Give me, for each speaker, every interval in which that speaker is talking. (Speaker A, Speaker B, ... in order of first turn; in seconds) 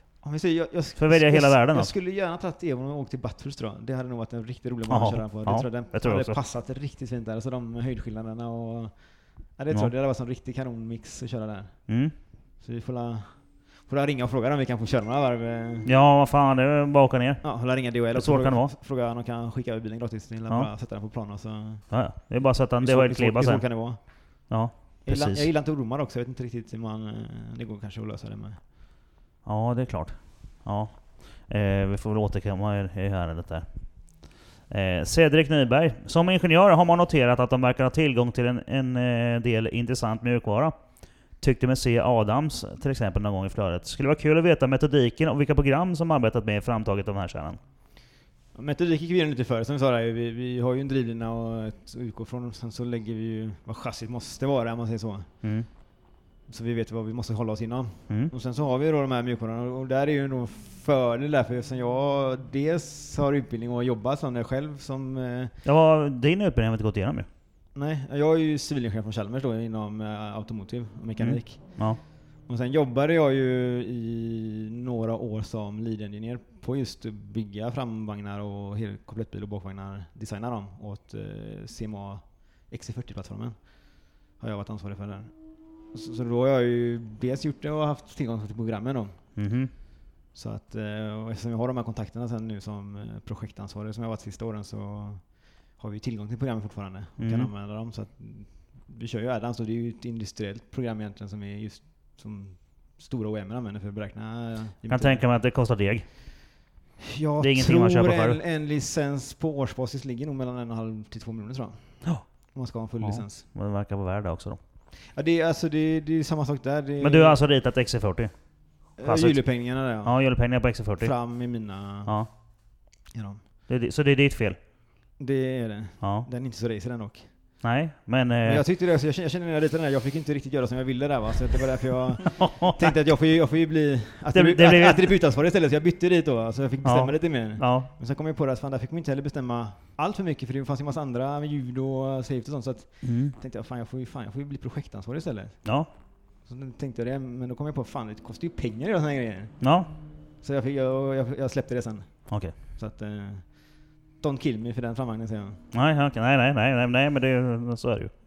Speaker A: 0.2-11.9, 12.6-15.9, 17.4-21.9, 22.8-24.5, 25.1-28.6, 48.5-55.3, 56.5-65.5, 67.8-83.6, 84.4-85.3, 85.9-89.2, 90.3-105.2, 107.0-113.5, 115.1-117.4, 119.0-120.2, 121.0-122.2, 123.1-123.4, 125.2-127.3, 128.4-145.6, 146.4-149.6, 150.4-155.6
Speaker B: 1.0-1.9, 4.9-6.4, 11.9-12.1, 15.8-18.7, 21.9-23.6, 24.5-25.5, 29.4-40.8, 41.4-47.6, 55.4-55.7, 65.7-67.3, 71.2-72.0, 89.4-89.7, 97.2-97.5, 104.9-106.0, 107.4-108.4, 113.0-114.6, 117.0-118.3, 119.0-119.4, 120.0-121.1, 123.7-124.6, 126.0-126.3, 127.6-128.6, 132.4-132.8, 134.3-135.0, 136.8-137.9, 143.0-143.3, 149.6-149.9, 152.3-152.5, 155.7-158.1